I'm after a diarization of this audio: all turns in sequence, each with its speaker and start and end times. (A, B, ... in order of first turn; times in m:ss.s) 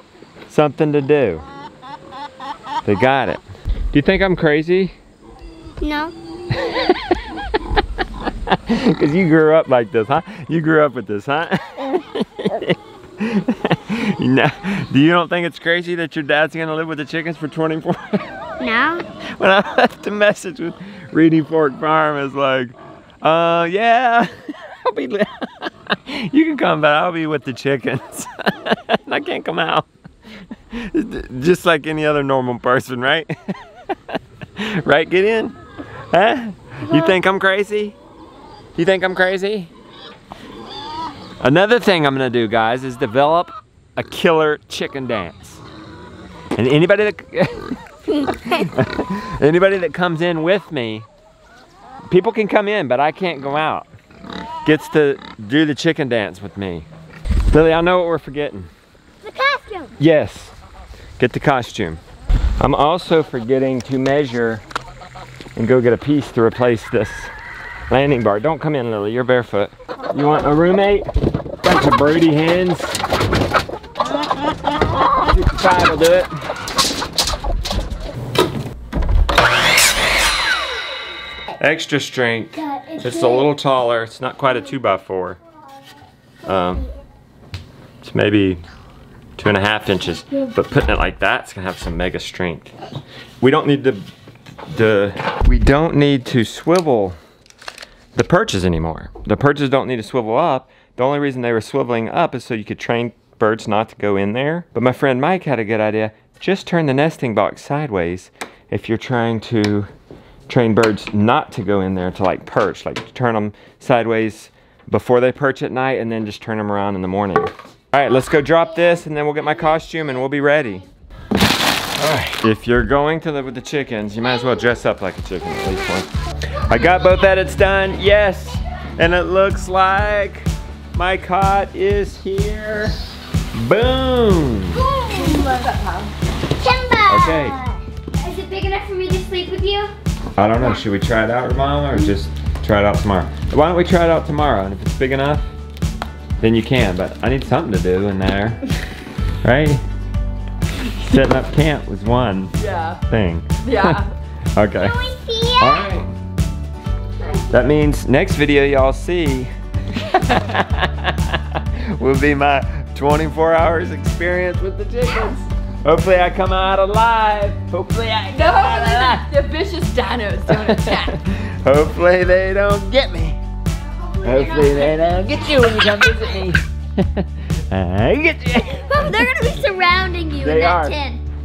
0:00.5-0:01.4 A
0:02.8-0:03.4 A
0:03.9-0:04.9 A
0:05.8-0:06.1 B
0:06.6-0:07.0 A
0:08.5-0:18.3 A
0:18.6-0:19.0 B
0:19.4-0:29.9 A
0:30.7-0:33.6 A
0:34.1-0:35.6 A
0:36.1-0:38.0 A
0:38.8-0:39.7 A
0:41.4-0:45.6 A
0:46.5-0:51.0 A
0:52.1-0:53.9 A
0:54.6-0:56.9 A
0:57.5-0:58.7 A
0:59.2-1:00.0 B
1:00.0-1:00.6 A
1:01.2-1:02.0 A
1:02.6-1:04.6 A
1:05.6-1:07.3 A
1:07.9-1:11.1 A
1:11.6-1:13.0 A
1:15.0-1:16.3 A
1:21.6-1:25.4 A
1:22.6-1:23.5 B
1:26.4-1:26.8 A
1:28.0-1:28.6 A
1:29.4-1:32.7 A
1:33.4-1:34.1 A
1:34.7-1:37.2 A
1:38.1-1:49.9 A
1:50.5-2:00.8 A
2:02.0-2:13.0 A
2:13.5-2:14.8 A
2:14.8-2:15.7 B
2:15.1-2:16.1 C
2:16.6-2:19.9 B
2:17.1-2:17.6 A
2:20.4-2:25.5 A
2:26.4-2:28.6 A
2:29.4-2:29.8 A
2:31.0-2:32.5 A
2:32.6-2:33.0 C
2:33.1-2:34.0 A
2:33.6-2:34.1 C
2:34.5-2:35.0 A
2:34.8-2:35.9 B
2:35.6-2:36.1 A
2:37.5-2:39.5 A
2:40.1-2:49.3 A
2:48.3-2:51.2 C
2:50.5-2:53.4 A
2:54.0-2:55.4 B
2:54.2-2:59.2 A
2:58.9-3:01.2 B
3:00.4-3:01.0 A